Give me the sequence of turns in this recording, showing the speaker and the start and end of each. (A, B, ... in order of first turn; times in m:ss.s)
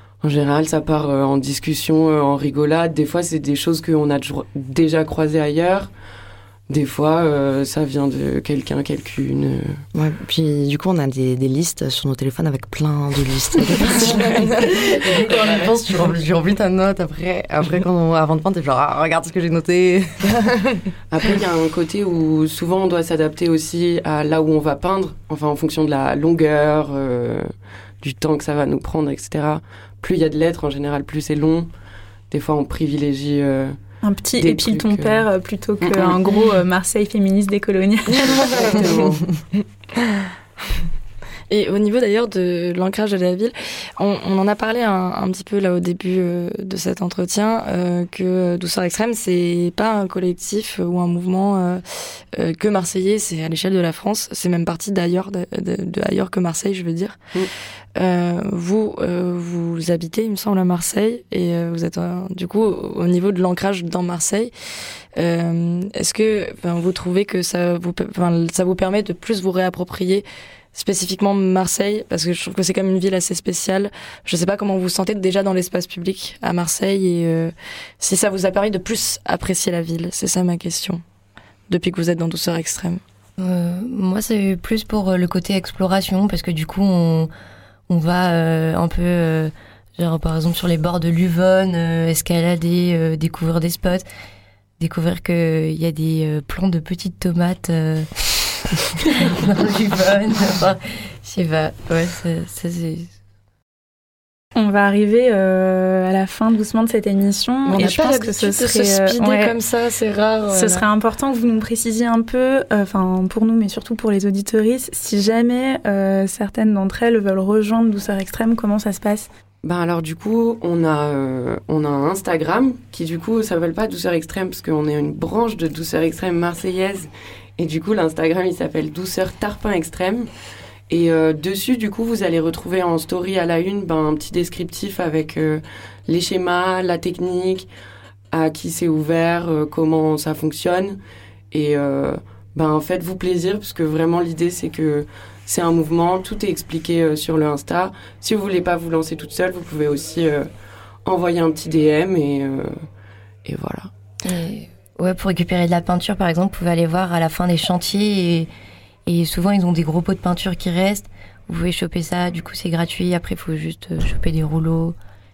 0:00.2-0:05.9 A
0:06.7-0:09.8 A
0:09.9-0:20.3 B
0:13.9-0:14.8 C
0:20.4-0:20.8 C
0:21.1-0:31.7 A
0:32.3-0:33.8 A
0:34.0-0:38.5 D
0:34.4-0:35.3 A
0:35.8-0:36.2 A
0:38.2-0:39.2 C
0:38.5-0:39.3 A
0:40.0-0:40.3 C
0:41.5-0:57.2 C
0:58.0-1:04.5 C
1:05.2-1:21.0 C
1:21.7-1:23.0 C
1:23.4-1:27.3 E
1:27.9-1:34.1 E
1:34.8-1:43.1 E
1:44.6-1:49.6 D
1:47.7-1:50.9 C
1:50.5-1:59.3 D
1:59.6-2:10.3 A
2:10.9-2:17.7 A
2:18.3-2:21.0 A
2:21.5-2:30.5 A
2:31.0-2:32.8 A
2:33.4-2:33.9 A
2:34.2-2:38.5 E
2:39.1-2:45.0 E